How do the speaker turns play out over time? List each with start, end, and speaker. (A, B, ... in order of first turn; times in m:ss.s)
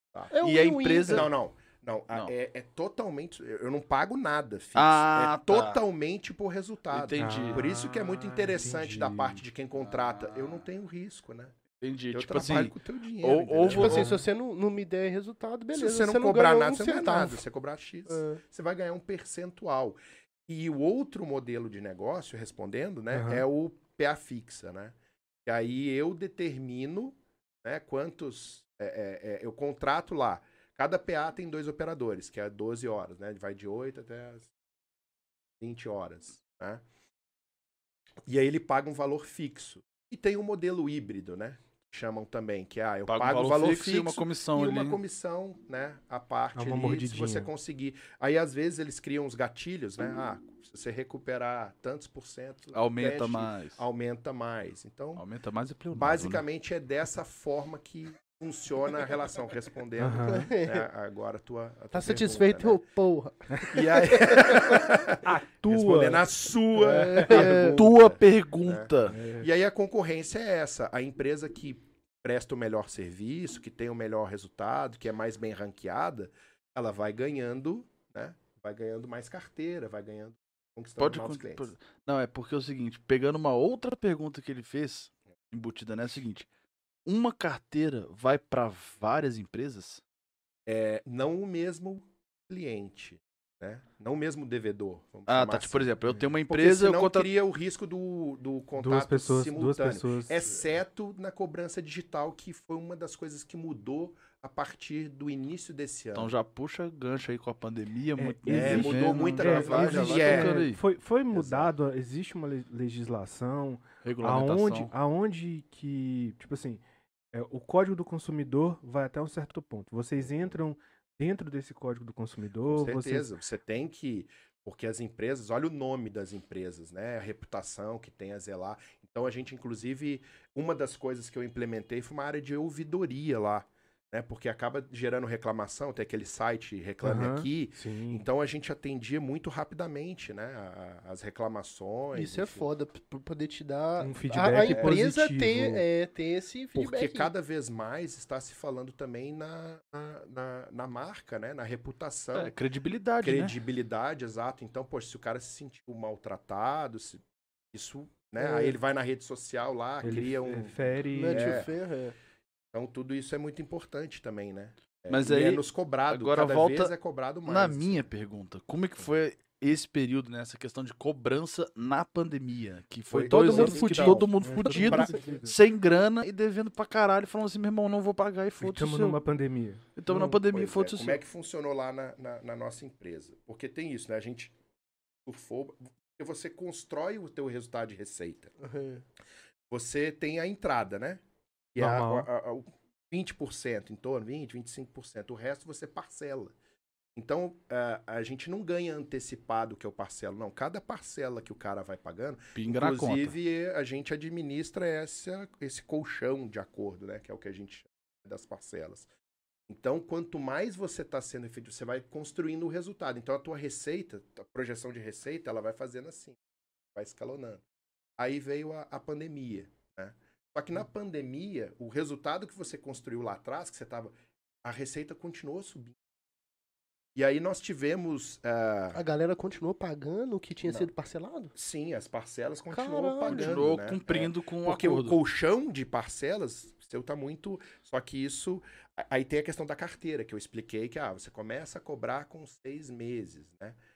0:00.3-0:01.3 A
0:00.4-0:01.3 B
0:01.0-0:11.6 C
0:04.8-0:05.8 B
0:06.9-0:07.7 B
0:07.2-0:09.4 D
0:09.8-0:10.6 B
0:11.8-0:14.1 B
0:12.1-0:14.1 C
0:13.7-0:17.4 A
0:13.8-0:14.2 D
0:15.7-0:25.0 C
0:18.1-0:18.4 A
0:23.1-0:23.4 D
0:25.5-0:34.5 C
0:35.6-0:36.8 C
0:38.3-0:55.2 C
0:43.1-0:45.0 B
0:46.6-0:47.5 D
0:52.7-0:53.8 B
0:55.2-0:56.4 B
0:55.9-1:02.8 C
1:00.0-1:00.5 D
1:00.3-1:00.8 A
1:01.9-1:04.9 A
1:03.7-1:21.7 C
1:05.2-1:06.3 D
1:06.8-1:07.3 D
1:06.8-1:07.8 A
1:07.3-1:09.2 B
1:09.1-1:09.5 D
1:21.0-1:26.5 B
1:27.1-1:30.0 B
1:30.7-1:46.3 C
1:35.3-1:37.3 B
1:38.8-1:40.5 D
1:46.1-1:50.8 B
1:48.2-1:56.8 D
1:48.5-1:50.7 C
1:51.3-1:51.7 C
1:54.0-1:54.9 B
1:57.3-2:03.3 D
2:02.6-2:22.7 C
2:17.0-2:18.2 D
2:22.1-2:27.3 A
2:24.0-2:25.8 D
2:24.6-2:25.0 C
2:26.8-2:32.5 C
2:32.3-2:33.6 B
2:33.2-2:41.7 C
2:38.4-2:38.8 A
2:40.0-2:41.7 D
2:41.1-2:42.2 A
2:42.7-2:48.1 C
2:45.1-2:46.9 B
2:47.5-2:59.2 B
2:53.1-2:55.4 C
2:53.3-2:55.2 A
2:54.4-2:55.6 D
2:58.6-3:00.4 D
3:00.0-3:01.2 B
3:00.2-3:04.5 C
3:05.2-3:08.5 C
3:08.6-3:09.0 A
3:09.7-3:11.2 C
3:11.7-3:16.6 C
3:11.8-3:12.3 D
3:17.1-3:29.1 C
3:22.6-3:23.4 B
3:29.7-3:36.4 C
3:36.9-3:37.6 C
3:38.2-3:46.0 C
3:47.1-3:49.0 C
3:48.9-3:51.5 A
3:50.6-3:50.9 C
3:51.6-4:03.8 C
3:52.7-3:53.6 A
3:53.2-3:55.2 B